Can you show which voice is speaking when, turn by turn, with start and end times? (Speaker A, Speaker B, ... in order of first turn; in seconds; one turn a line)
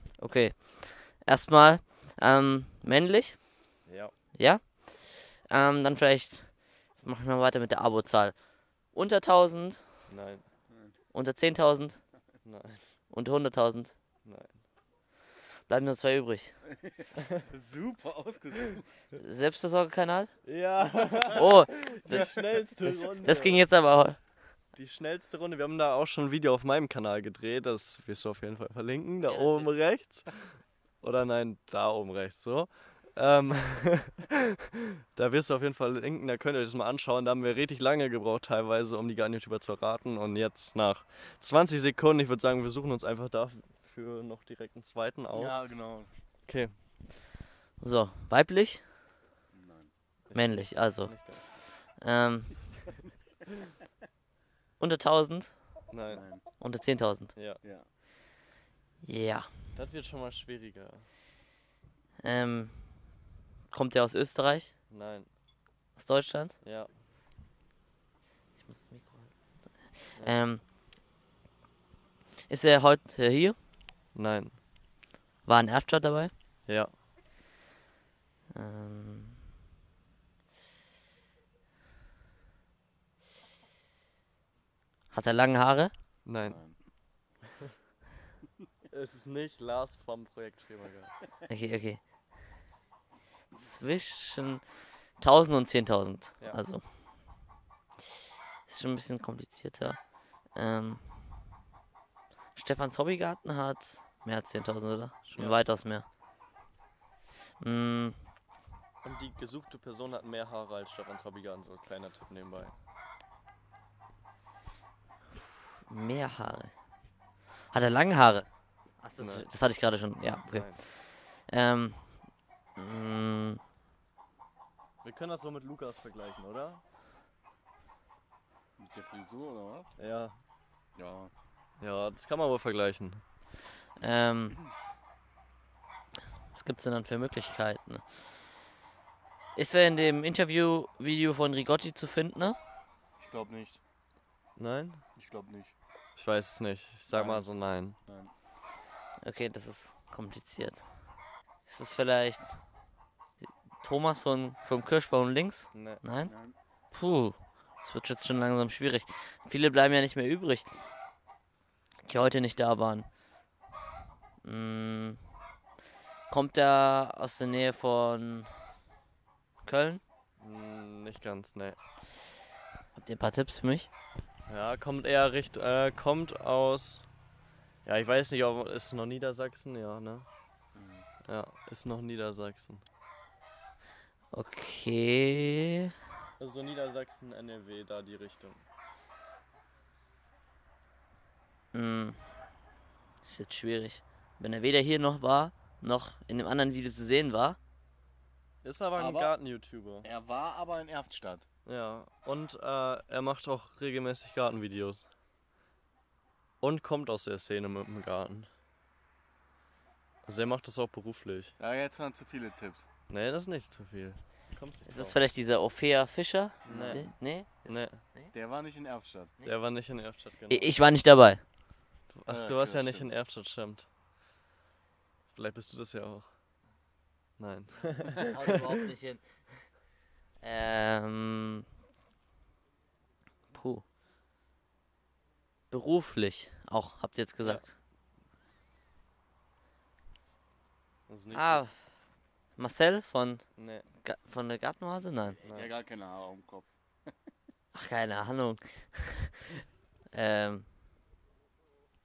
Speaker A: 0.2-3.5
Speaker B: 3.9-4.1
Speaker A: 4.3-10.0
Speaker B: 10.1-10.4
Speaker A: 11.1-12.0
Speaker B: 12.4-12.8
Speaker A: 13.1-13.9
Speaker B: 14.2-14.6
Speaker A: 15.7-16.5
Speaker C: 16.7-19.0
Speaker A: 19.2-20.3
Speaker B: 20.4-23.7
Speaker A: 21.3-24.2
Speaker B: 24.7-34.3
Speaker A: 29.3-29.7
Speaker B: 35.1-45.7
Speaker C: 45.3-46.1
Speaker B: 46.5-46.7
Speaker A: 47.8-48.8
Speaker C: 49.5-49.9
Speaker B: 50.3-51.5
Speaker A: 50.3-52.7
Speaker A: 54.8-55.7
Speaker B: 55.9-56.2
Speaker C: 56.1-56.4
Speaker A: 56.6-57.3
Speaker B: 57.3-57.6
Speaker C: 57.6-57.9
Speaker A: 59.0-59.5
Speaker B: 59.7-61.0
Speaker A: 62.2-64.7
Speaker B: 64.9-65.3
Speaker A: 66.0-66.6
Speaker B: 66.6-66.9
Speaker A: 68.6-70.6
Speaker A: 72.5-73.5
Speaker B: 74.1-74.6
Speaker A: 75.4-76.3
Speaker B: 76.7-76.9
Speaker A: 78.5-79.4
Speaker A: 85.1-85.9
Speaker B: 86.2-87.2
Speaker C: 86.5-86.8
Speaker B: 88.9-91.1
Speaker A: 91.5-92.0
Speaker A: 93.5-97.4
Speaker A: 98.7-101.0
Speaker A: 102.5-106.0
Speaker B: 105.3-105.6
Speaker A: 107.6-108.2
Speaker B: 109.0-112.7
Speaker A: 115.9-116.7
Speaker A: 117.7-122.2
Speaker B: 119.2-119.5
Speaker B: 120.5-120.8
Speaker A: 122.8-123.6
Speaker B: 125.0-126.8
Speaker C: 128.8-129.9
Speaker B: 130.0-130.3
Speaker C: 130.9-131.3
Speaker B: 131.8-133.2
Speaker A: 134.0-134.6
Speaker A: 136.5-138.1
Speaker A: 139.5-142.6
Speaker C: 143.2-143.8
Speaker B: 144.6-145.0
Speaker C: 145.2-145.7
Speaker B: 146.2-147.9
Speaker C: 147.1-148.3
Speaker A: 149.2-151.0
Speaker A: 151.7-152.6
Speaker A: 153.4-156.3
Speaker B: 155.7-156.0
Speaker C: 156.2-156.5
Speaker A: 156.9-160.7
Speaker A: 162.0-163.1
Speaker A: 164.4-165.2
Speaker A: 166.3-168.5
Speaker A: 169.6-170.0
Speaker B: 170.4-171.8
Speaker A: 172.9-173.9
Speaker B: 174.5-177.1
Speaker B: 177.8-180.2
Speaker A: 180.7-181.0
Speaker B: 181.2-182.8
Speaker A: 184.3-185.9
Speaker B: 186.4-188.6
Speaker A: 191.7-192.2
Speaker A: 193.2-197.6
Speaker B: 198.6-200.1
Speaker C: 198.9-199.3
Speaker C: 200.0-201.4
Speaker B: 201.7-205.1
Speaker B: 206.6-208.5
Speaker B: 210.2-211.5
Speaker C: 211.6-212.8
Speaker B: 213.1-215.2
Speaker A: 214.8-218.3
Speaker C: 216.6-217.1
Speaker B: 216.6-218.0
Speaker C: 218.3-219.3
Speaker B: 219.4-220.7
Speaker A: 220.5-221.4
Speaker B: 222.1-223.9
Speaker C: 222.3-223.1
Speaker B: 225.3-226.3
Speaker B: 227.4-228.3
Speaker A: 228.2-229.7
Speaker A: 230.4-231.6
Speaker A: 233.5-233.8
Speaker A: 235.7-237.7
Speaker B: 237.4-237.7
Speaker B: 241.1-241.6
Speaker A: 241.3-241.8
Speaker A: 242.6-245.4
Speaker B: 243.6-243.8
Speaker B: 245.4-245.7
Speaker C: 245.4-246.7
Speaker A: 247.7-250.6